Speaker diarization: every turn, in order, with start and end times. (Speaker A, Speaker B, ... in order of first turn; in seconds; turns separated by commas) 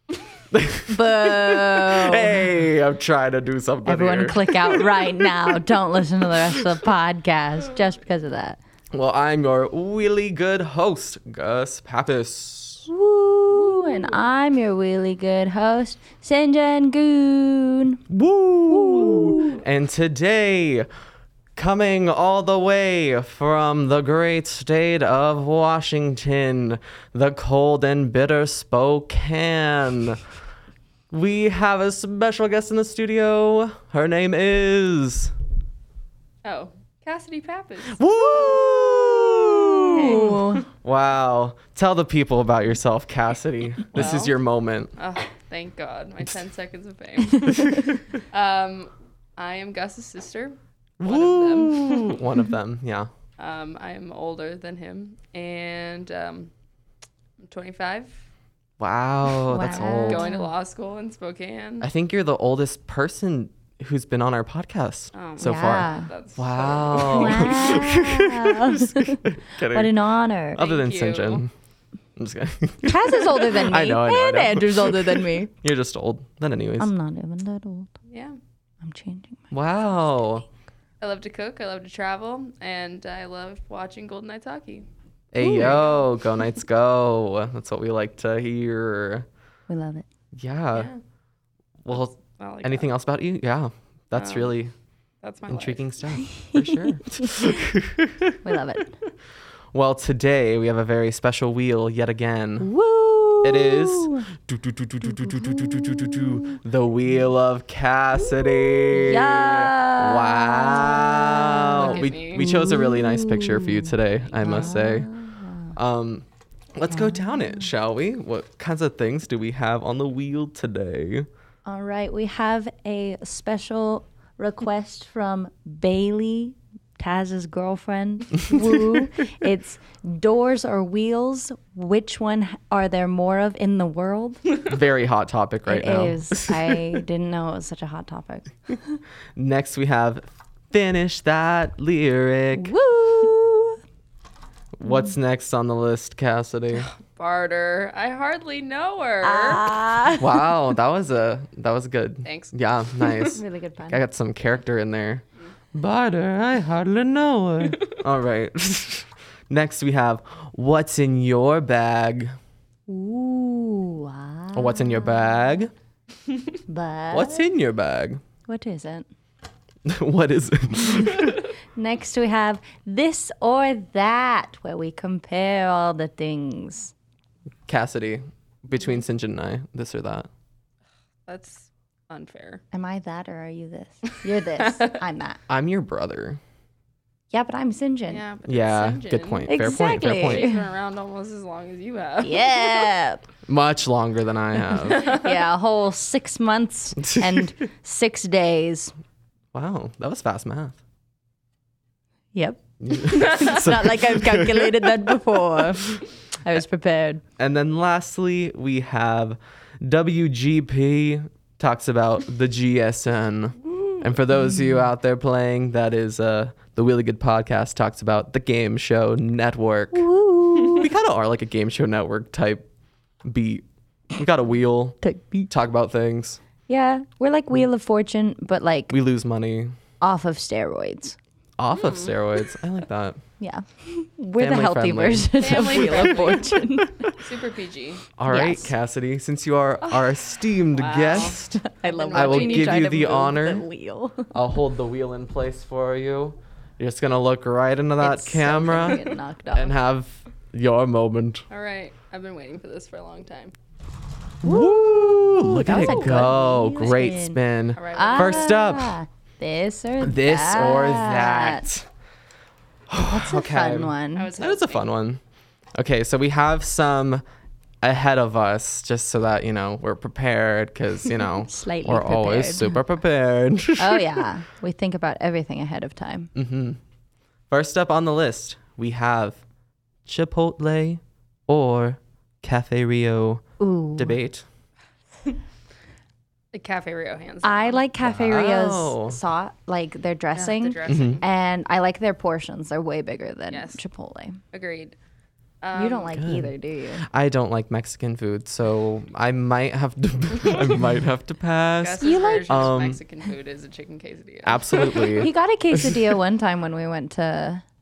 Speaker A: 0.5-4.8, Speaker B: 0.9-2.5, Speaker B: 3.9-8.6, Speaker A: 8.9-12.9, Speaker B: 12.9-18.0, Speaker C: 13.6-14.2, Speaker A: 18.1-20.9, Speaker B: 18.7-19.6, Speaker A: 21.5-30.2, Speaker A: 31.1-35.3, Speaker C: 36.4-38.6, Speaker A: 37.9-44.9, Speaker C: 39.9-40.4, Speaker B: 39.9-40.6, Speaker C: 43.9-44.4, Speaker C: 45.0-52.2, Speaker A: 51.0-53.1, Speaker C: 53.4-56.5, Speaker C: 57.4-58.1, Speaker A: 58.8-60.3, Speaker B: 59.5-60.5, Speaker C: 59.6-61.9, Speaker A: 61.8-69.9, Speaker C: 65.1-67.8, Speaker B: 65.4-66.1, Speaker B: 67.0-70.6, Speaker A: 70.5-71.5, Speaker C: 70.6-71.4, Speaker A: 72.2-76.9, Speaker B: 72.8-75.5, Speaker B: 76.8-77.9, Speaker C: 78.1-78.4, Speaker B: 78.8-79.5, Speaker A: 79.5-80.5, Speaker C: 81.0-84.8, Speaker A: 85.3-89.3, Speaker B: 85.4-85.8, Speaker C: 85.4-86.0, Speaker B: 89.7-90.0, Speaker A: 90.3-90.9, Speaker C: 90.7-91.0, Speaker A: 91.8-94.7, Speaker C: 92.1-92.9, Speaker C: 94.1-94.5, Speaker C: 95.2-95.8, Speaker A: 95.5-98.3, Speaker B: 96.4-97.3, Speaker B: 98.4-98.9, Speaker A: 99.7-102.7, Speaker B: 102.6-104.3, Speaker A: 103.4-115.1, Speaker B: 105.3-106.6, Speaker B: 108.2-115.7, Speaker C: 111.7-112.5, Speaker A: 115.7-121.3, Speaker B: 116.9-117.6, Speaker B: 121.6-134.4, Speaker A: 134.7-137.0, Speaker B: 135.7-139.0, Speaker A: 139.3-142.7, Speaker B: 142.5-143.8, Speaker A: 144.8-146.9, Speaker C: 146.7-149.6, Speaker B: 149.2-150.3, Speaker A: 150.1-162.3, Speaker C: 152.2-152.5, Speaker B: 153.3-154.0, Speaker B: 162.9-165.4, Speaker A: 164.5-165.7, Speaker B: 166.7-167.4, Speaker A: 167.1-168.2, Speaker B: 168.5-169.1, Speaker A: 169.8-171.4, Speaker B: 171.7-176.9, Speaker A: 177.7-180.3, Speaker C: 181.3-182.6, Speaker B: 182.7-185.4, Speaker C: 184.6-184.9, Speaker A: 185.5-186.4, Speaker B: 187.3-188.2, Speaker C: 188.1-192.5, Speaker A: 188.4-190.5, Speaker B: 189.5-190.6, Speaker B: 192.2-193.2, Speaker A: 193.5-195.1, Speaker B: 194.9-198.9, Speaker A: 197.0-197.4, Speaker A: 199.5-200.8, Speaker B: 202.3-207.2, Speaker A: 202.8-204.9, Speaker A: 207.4-220.1, Speaker B: 219.9-220.9, Speaker A: 220.6-222.7, Speaker A: 223.2-223.6, Speaker A: 224.2-225.0, Speaker B: 225.0-225.5, Speaker A: 225.5-226.4, Speaker B: 226.7-228.9, Speaker A: 228.9-229.7, Speaker B: 230.0-231.2, Speaker A: 231.6-233.2, Speaker C: 231.7-232.1, Speaker B: 233.4-237.2, Speaker A: 234.4-236.0, Speaker C: 235.4-238.0, Speaker A: 238.2-241.6, Speaker B: 238.3-238.7, Speaker C: 240.7-243.1, Speaker B: 241.5-244.3, Speaker A: 242.1-243.6, Speaker A: 244.3-249.0, Speaker B: 248.0-249.8, Speaker A: 249.5-251.4, Speaker C: 251.5-253.5, Speaker A: 254.4-258.9, Speaker B: 255.5-257.4, Speaker C: 255.7-256.3, Speaker C: 257.8-258.5, Speaker B: 257.9-261.7, Speaker A: 260.0-261.9, Speaker A: 262.9-265.2, Speaker B: 263.0-264.3, Speaker C: 264.1-264.9, Speaker A: 265.7-267.2, Speaker A: 267.8-274.2, Speaker B: 271.4-272.8, Speaker B: 273.8-276.3, Speaker A: 276.3-276.8, Speaker A: 277.5-279.4, Speaker A: 280.1-283.4, Speaker B: 283.6-284.2, Speaker A: 283.9-284.4, Speaker C: 286.5-287.8, Speaker B: 287.4-294.4, Speaker A: 288.0-289.2, Speaker C: 290.3-291.2, Speaker A: 290.9-291.2, Speaker C: 293.5-293.8, Speaker C: 294.5-294.9, Speaker C: 295.6-296.1, Speaker B: 295.7-297.0, Speaker A: 296.1-303.0, Speaker C: 301.8-305.2, Speaker B: 302.0-302.6, Speaker A: 304.4-305.9, Speaker B: 305.2-307.6